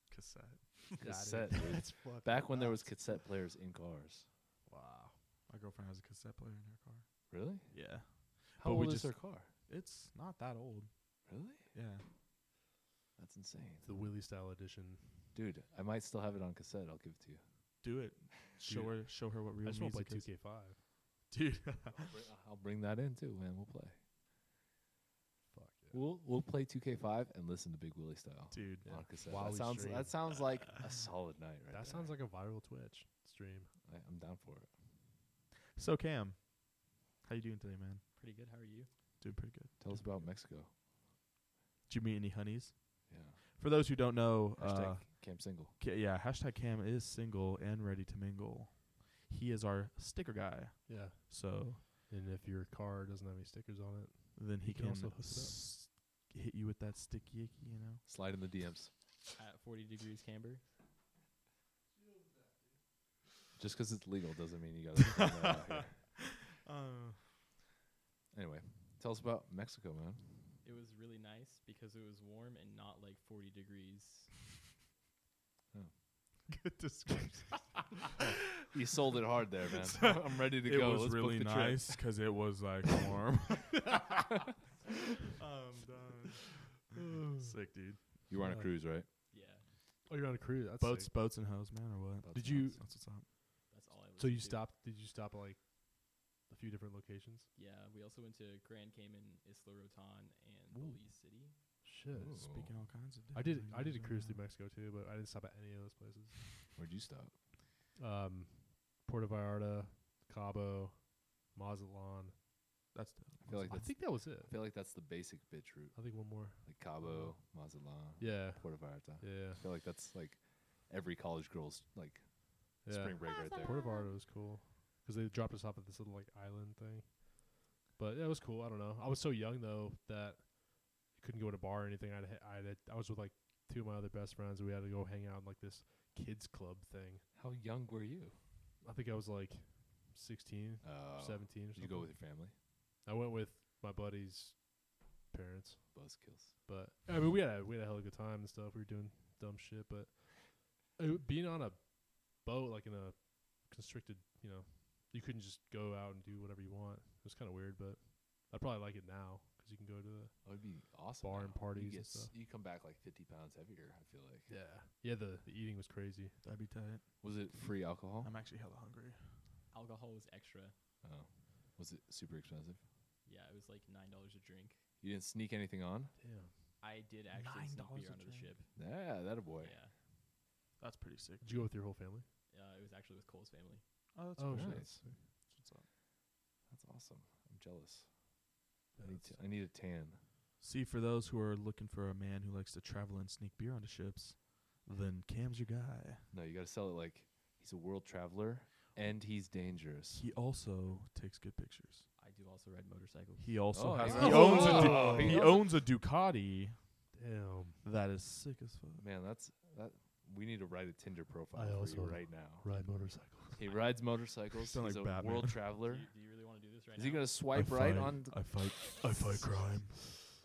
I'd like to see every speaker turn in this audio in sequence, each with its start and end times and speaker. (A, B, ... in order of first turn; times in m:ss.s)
0:00.1-0:01.3 A
0:01.0-0:04.3 B
0:01.0-0:03.3 C
0:04.7-0:05.2 C
0:05.5-0:12.0 A
0:07.3-0:09.5 B
0:11.2-0:11.7 B
0:13.2-0:13.9 B
0:13.8-0:15.3 C
0:15.3-0:17.4 B
0:17.8-0:20.4 A
0:18.7-0:20.8 C
0:21.3-0:22.1 A
0:21.9-0:24.0 B
0:25.5-0:26.0 C
0:25.9-0:32.1 B
0:28.5-0:28.9 A
0:28.8-0:30.2 C
0:31.7-0:33.7 C
0:33.8-0:34.7 B
0:35.8-0:38.0 A
0:38.2-0:38.9 D
0:39.2-0:40.2 A
0:39.8-0:40.7 B
0:41.9-0:51.8 A
0:43.1-0:43.4 B
0:44.6-0:45.7 B
0:50.9-0:55.6 C
0:54.4-0:58.0 A
0:58.0-0:58.9 B
0:59.4-1:00.6 D
1:02.1-1:02.5 C
1:03.6-1:06.0 B
1:05.0-1:06.0 A
1:06.6-1:07.2 A
1:08.3-1:10.4 B
1:10.6-1:14.3 D
1:16.5-1:18.2 A
1:18.2-1:22.0 B
1:19.9-1:24.0 A
1:25.4-1:28.0 A
1:26.9-1:27.6 C
1:28.3-1:29.1 B
1:28.3-1:28.7 C
1:29.3-1:29.6 D
1:30.0-1:31.1 C
1:30.8-1:33.3 A
1:32.2-1:32.8 B
1:32.3-1:32.8 C
1:33.7-1:34.7 D
1:34.2-1:37.5 C
1:37.5-1:41.6 D
1:40.7-1:41.0 A
1:41.8-1:42.4 C
1:42.1-1:42.7 B
1:42.4-1:44.4 A
1:43.3-1:46.5 C
1:46.7-1:47.4 B
1:48.0-1:52.3 C
1:52.9-1:53.9 A
1:53.4-2:03.9 B
1:53.6-1:54.6 C
1:55.9-1:57.3 C
1:58.2-1:59.6 C
2:02.8-2:17.2 C
2:03.2-2:04.2 D
2:17.3-2:18.3 B
2:18.8-2:22.4 C
2:20.8-2:22.5 B
2:23.0-2:42.3 C
2:25.9-2:26.6 B
2:40.4-2:44.5 B
2:44.5-2:46.4 C
2:46.4-2:47.1 A
2:47.2-2:48.3 B
2:48.2-2:49.4 A
2:49.7-2:50.7 D
2:51.0-2:52.8 B
2:53.2-2:54.8 D
2:55.0-2:56.1 B
2:56.2-2:56.5 C
2:56.8-2:58.9 D
2:57.3-2:58.5 A
2:58.8-2:59.7 B
2:59.6-2:59.9 D
3:00.8-3:01.6 A
3:01.4-3:02.2 C
3:02.5-3:03.8 D
3:04.1-3:05.9 A
3:04.4-3:05.2 C
3:04.5-3:05.0 B
3:06.7-3:08.2 B
3:09.0-3:09.4 C
3:09.0-3:10.2 B
3:10.6-3:16.2 A
3:16.3-3:20.2 B
3:20.1-3:22.1 A
3:22.2-3:24.9 D
3:23.4-3:27.0 A
3:23.7-3:25.7 B
3:24.1-3:25.5 C
3:27.1-3:27.8 C
3:27.8-3:29.0 A
3:29.0-3:32.7 B
3:31.5-3:33.6 C
3:33.5-3:36.1 B
3:34.6-3:35.6 A
3:35.8-3:37.3 D
3:36.9-3:38.6 B
3:37.5-3:40.1 A